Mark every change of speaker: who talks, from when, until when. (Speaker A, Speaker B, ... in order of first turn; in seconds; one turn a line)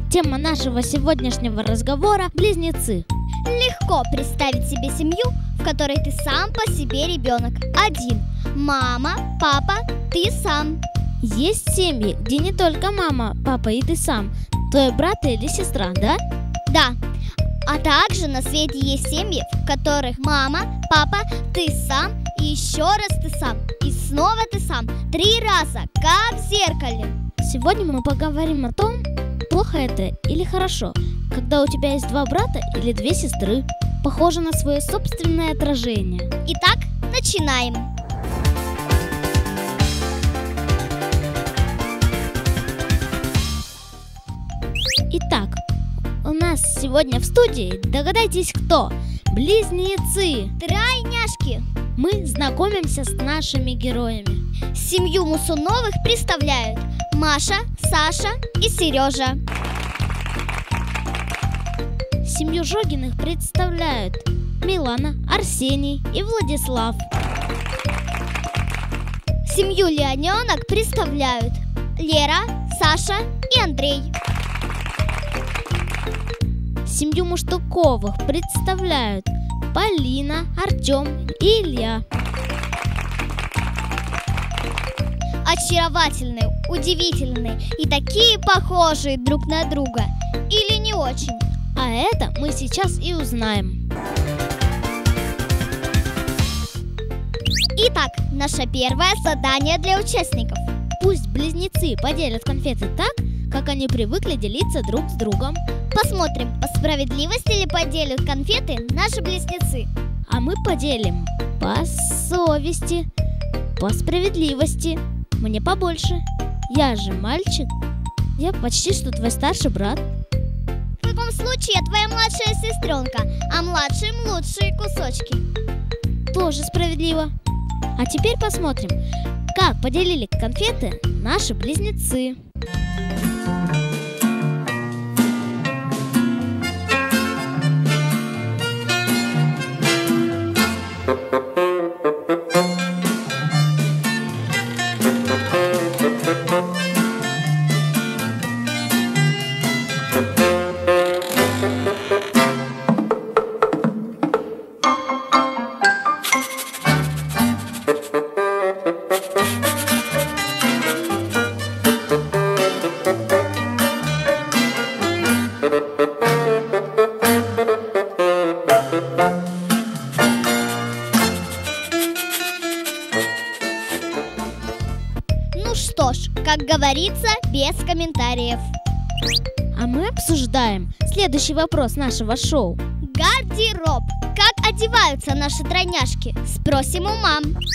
Speaker A: 0.1-3.0
Speaker B: 3.5-10.8
Speaker A: 11.2-16.2
Speaker B: 16.7-17.0
Speaker B: 17.7-27.2
Speaker A: 27.4-36.3
Speaker B: 36.4-37.9
Speaker A: 45.1-45.6
Speaker A: 46.2-50.5
Speaker B: 50.6-51.7
Speaker A: 52.0-54.4
Speaker B: 54.7-59.4
Speaker A: 62.2-67.1
Speaker B: 69.4-74.1
Speaker A: 76.8-82.0
Speaker B: 85.4-91.4
Speaker A: 91.8-93.8
Speaker B: 97.8-100.7
Speaker A: 101.0-105.6
Speaker B: 105.9-109.9
Speaker A: 110.3-113.1
Speaker A: 113.8-117.7
Speaker A: 118.4-120.0
Speaker B: 121.0-125.4
Speaker A: 126.3-127.3
Speaker A: 128.0-129.0
Speaker A: 129.5-132.4
Speaker B: 175.5-178.7
Speaker A: 179.8-182.8
Speaker B: 183.0-187.6